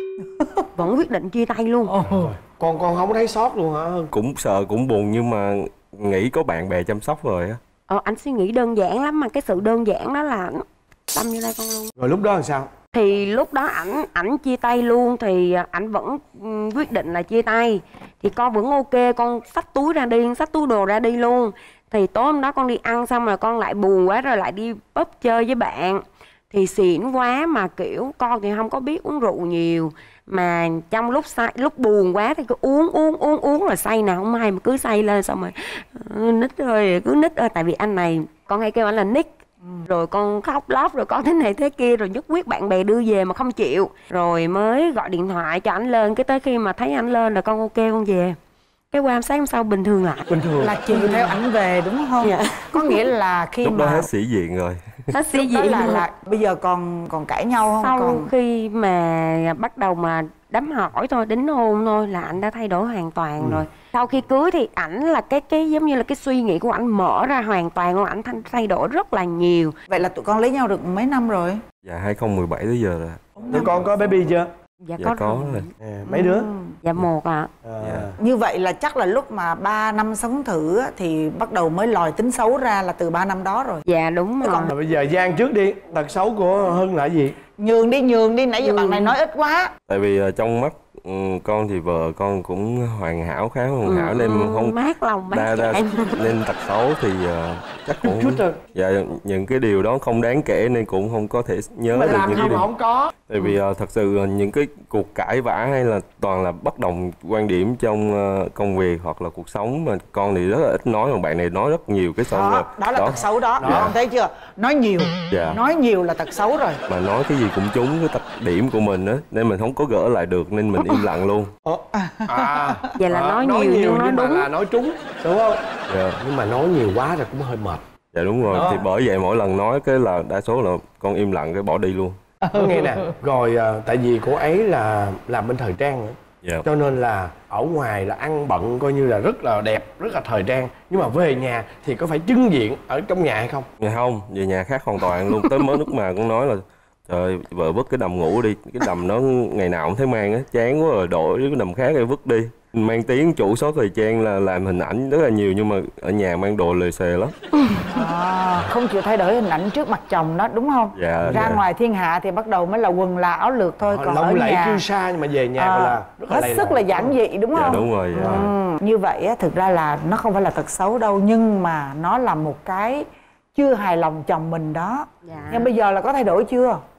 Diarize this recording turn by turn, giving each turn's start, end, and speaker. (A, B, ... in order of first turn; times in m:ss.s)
0:00.4-0:00.7 A
0:00.8-0:01.9 B
0:01.9-0:02.3 A
0:02.0-0:04.1 C
0:04.1-0:07.6 D
0:07.9-0:11.9 B
0:12.0-0:12.7 C
0:12.9-0:39.3 B
0:39.8-0:48.4 B
0:48.9-0:50.2 B
0:50.3-0:50.7 C
0:50.6-0:54.1 A
0:52.2-0:52.9 B
0:53.6-0:54.8 D
0:55.1-0:56.0 B
0:55.3-0:58.3 A
0:57.8-1:09.8 B
1:09.9-1:11.6 A
1:11.8-1:13.8 D
1:13.4-1:13.8 A
1:13.5-1:14.5 C
1:14.8-1:16.2 B
1:15.0-1:15.6 D
1:15.8-1:16.5 C
1:16.1-1:16.8 A
1:16.8-1:17.5 B
1:17.6-1:18.2 C
1:17.8-1:18.1 D
1:18.2-1:23.8 A
1:23.9-1:24.7 B
1:24.4-1:27.4 C
1:27.6-1:29.7 A
1:28.6-1:29.2 B
1:29.9-1:34.8 D
1:33.9-1:36.2 B
1:35.3-1:42.7 D
1:38.0-1:38.6 C
1:41.9-1:43.1 C
1:43.3-1:53.9 D
1:52.3-1:56.8 A
1:53.6-1:53.9 C
1:55.3-1:55.6 D
1:56.9-2:01.5 D
2:01.6-2:07.8 C
2:01.9-2:02.9 A
2:03.0-2:04.5 B
2:05.9-2:06.2 D
2:08.1-2:12.2 D
2:08.5-2:08.9 C
2:12.5-2:13.0 A
2:12.5-2:23.7 C
2:23.8-2:37.3 D
2:37.9-2:44.8 A
2:41.0-2:41.6 D
2:41.2-2:41.5 C
2:43.8-2:47.1 C
2:45.6-2:56.8 A
2:47.5-2:48.5 D
2:55.2-2:55.7 B